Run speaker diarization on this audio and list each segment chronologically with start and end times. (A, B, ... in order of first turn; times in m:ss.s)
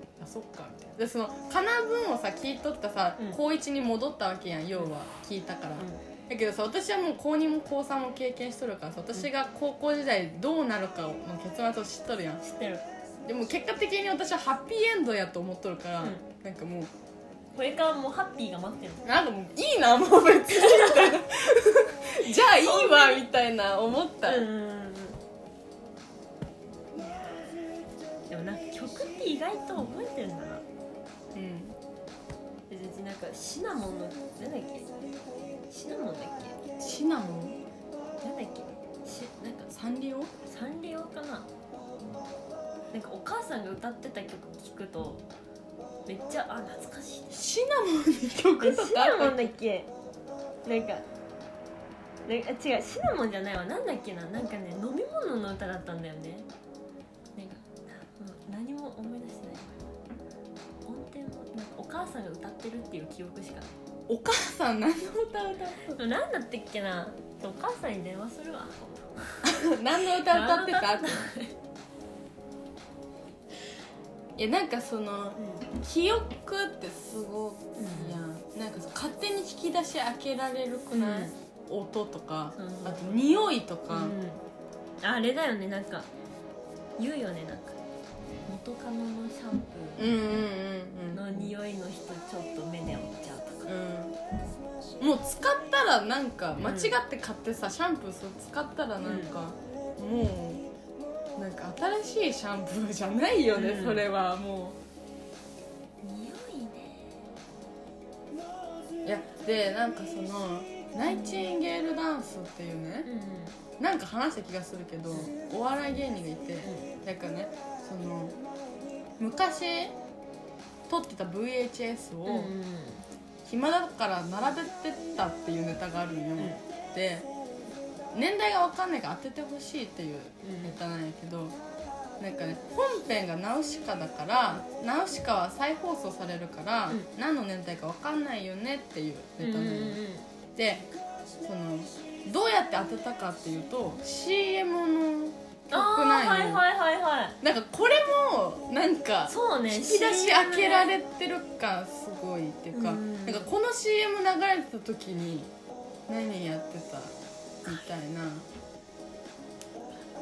0:00.2-0:12.4 A
0:12.4-0:12.8 B
0:13.2-0:16.9 A
0:17.6-0:19.1 B
0:19.0-0:24.5 A
0:20.5-0:21.2 B
0:22.2-0:23.2 B
0:24.2-0:25.2 B
0:27.0-0:27.5 B
0:28.3-0:30.6 B
0:31.3-0:31.8 A
0:32.7-0:34.9 B
0:35.7-0:36.6 B
0:36.8-0:37.6 A
0:38.2-0:39.7 B
0:39.7-0:40.3 A
0:40.4-0:41.5 B
0:42.9-0:45.2 B
0:46.1-0:47.5 B
0:47.3-0:49.5 A
0:48.6-0:49.9 B
0:50.6-0:51.1 B
0:52.3-0:56.5 B
0:57.4-0:59.9 B
1:00.8-1:03.7 B
1:04.1-1:06.0 A
1:06.0-1:11.6 B
1:09.4-1:11.3 A
1:14.4-1:24.2 A
1:15.4-1:15.6 B
1:17.8-1:18.2 B
1:20.9-1:21.3 B
1:22.6-1:23.2 B
1:23.9-1:24.4 B
1:25.0-1:26.1 B
1:27.0-1:27.8 B
1:28.5-1:30.1 B
1:30.0-1:31.5 A
1:31.1-1:33.7 B
1:33.7-1:34.2 A
1:35.0-1:40.7 A
1:36.6-1:37.0 B
1:39.0-1:39.4 B
1:41.4-1:44.8 A
1:43.6-1:44.1 B
1:46.0-1:47.2 B
1:49.0-1:53.1 A
1:51.1-1:51.5 B
1:53.0-1:53.6 B
1:53.8-1:58.4 A
1:56.6-1:56.9 B
1:59.2-2:00.0 A
2:00.9-2:02.5 A
2:02.3-2:03.1 B
2:03.4-2:07.3 A
2:06.4-2:06.6 B
2:08.1-2:11.6 A
2:10.4-2:10.8 B
2:12.2-2:20.0 A
2:19.4-2:20.3 B
2:20.6-2:20.9 A
2:21.4-2:26.6 A
2:25.7-2:27.4 B
2:27.4-2:35.5 A
2:29.3-2:30.9 B
2:32.7-2:33.5 B
2:36.1-2:38.5 A